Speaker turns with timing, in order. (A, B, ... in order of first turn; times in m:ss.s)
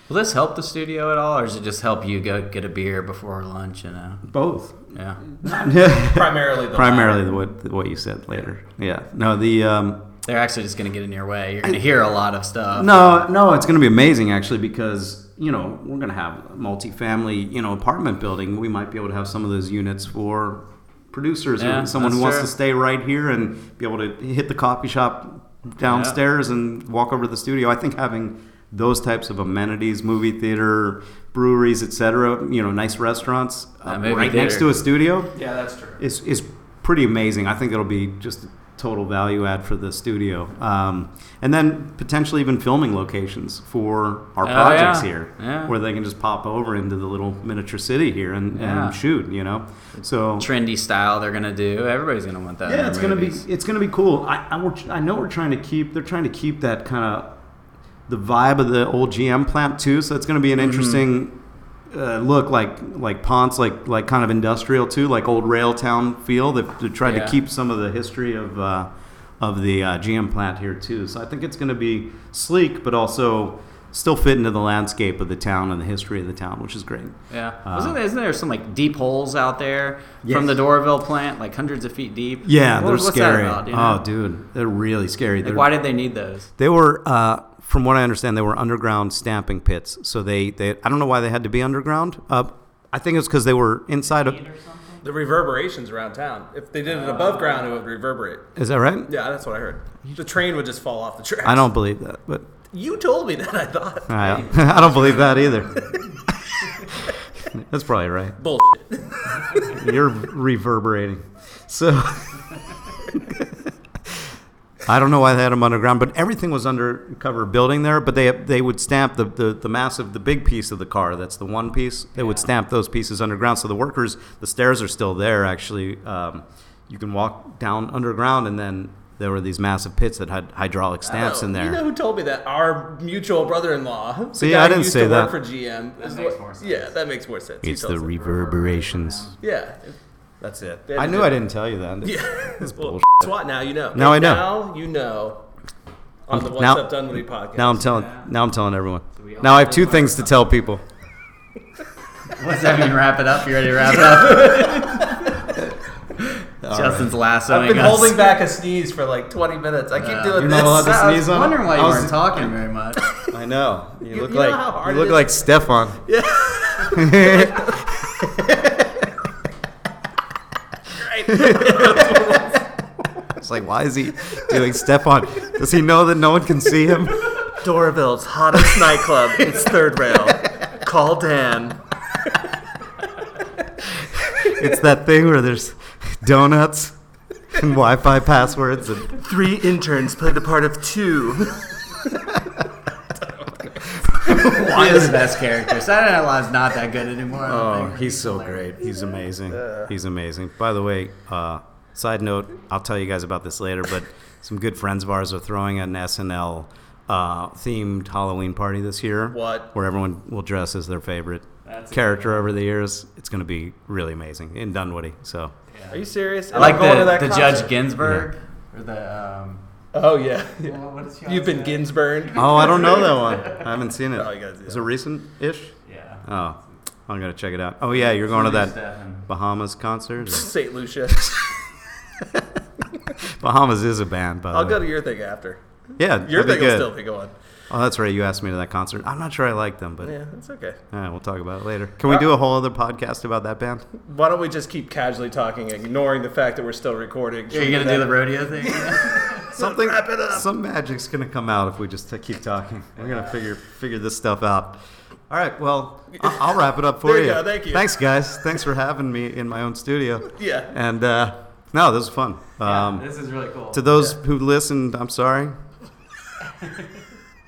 0:00.1-0:04.3 A
0:04.3-0:10.1 B
0:04.9-0:05.2 A
0:05.4-0:07.2 C
0:10.2-0:13.2 A
0:12.8-0:35.4 B
0:21.6-0:22.5 A
0:25.9-0:26.2 A
0:33.8-0:34.7 A
0:35.4-0:35.9 C
0:36.0-0:50.5 B
0:44.4-0:45.7 A
0:48.5-0:49.0 A
0:50.4-0:53.4 A
0:52.6-0:57.4 B
0:58.1-1:01.4 B
1:00.6-1:01.0 A
1:01.9-1:18.0 B
1:07.0-1:07.4 A
1:17.3-1:24.0 A
1:20.2-1:20.6 B
1:22.4-1:25.7 B
1:25.4-1:26.5 A
1:26.6-1:34.4 B
1:34.2-1:35.0 A
1:35.0-1:38.5 C
1:37.1-1:37.8 A
1:38.6-1:39.1 B
1:39.1-1:41.6 C
1:41.4-1:42.5 B
1:42.7-1:44.6 C
1:44.1-1:48.4 B
1:44.2-1:45.6 A
1:45.8-1:46.2 C
1:48.4-1:49.9 C
1:49.6-1:54.3 B
1:54.8-2:11.8 B
2:11.2-2:18.3 C
2:14.4-2:15.3 B
2:16.0-2:16.9 A
2:17.6-2:19.3 B
2:18.1-2:19.4 A
2:19.4-2:21.4 C
2:20.9-2:23.3 B
2:22.0-2:25.4 C
2:23.9-2:24.5 B
2:26.3-2:28.0 C
2:26.3-2:26.9 B
2:27.5-2:30.8 B
2:27.9-2:28.3 A
2:29.2-2:30.3 A
2:32.2-2:35.4 A
2:34.1-2:35.0 C
2:36.2-2:38.2 A
2:36.6-2:37.2 B
2:37.5-2:41.0 C
2:40.0-2:43.0 A
2:40.4-2:42.5 B
2:43.2-2:46.0 B
2:44.1-2:47.9 C
2:46.9-2:49.0 B
2:50.9-2:52.7 C
2:51.3-2:52.4 B
2:53.3-2:57.4 B
2:57.4-3:01.8 C
2:59.4-2:59.7 B
3:04.4-3:07.0 B
3:07.5-3:09.2 B
3:09.1-3:12.0 C
3:13.8-3:15.2 B
3:14.3-3:18.9 A
3:17.4-3:35.6 B
3:19.5-3:19.9 C
3:29.3-3:29.7 C
3:31.6-3:32.5 A
3:35.7-3:36.0 A
3:35.9-3:37.8 C
3:36.5-3:39.6 A
3:38.0-3:38.3 B
3:39.9-3:43.4 C
3:40.6-3:43.7 A
3:42.4-3:50.5 B
3:44.2-3:44.9 C
3:45.9-3:46.2 A
3:48.2-3:49.3 A
3:50.3-3:51.4 C
3:53.2-3:54.8 B
3:54.5-3:55.6 C
3:56.0-3:56.9 B
3:56.2-3:57.3 C
3:57.7-4:00.2 B
4:00.0-4:00.8 C
4:00.9-4:03.9 B
4:04.0-4:10.4 C
4:07.5-4:09.5 A
4:09.5-4:23.1 B
4:16.2-4:17.9 C
4:20.4-4:20.7 C
4:22.6-4:23.8 A
4:23.7-4:25.6 B
4:26.6-4:26.9 A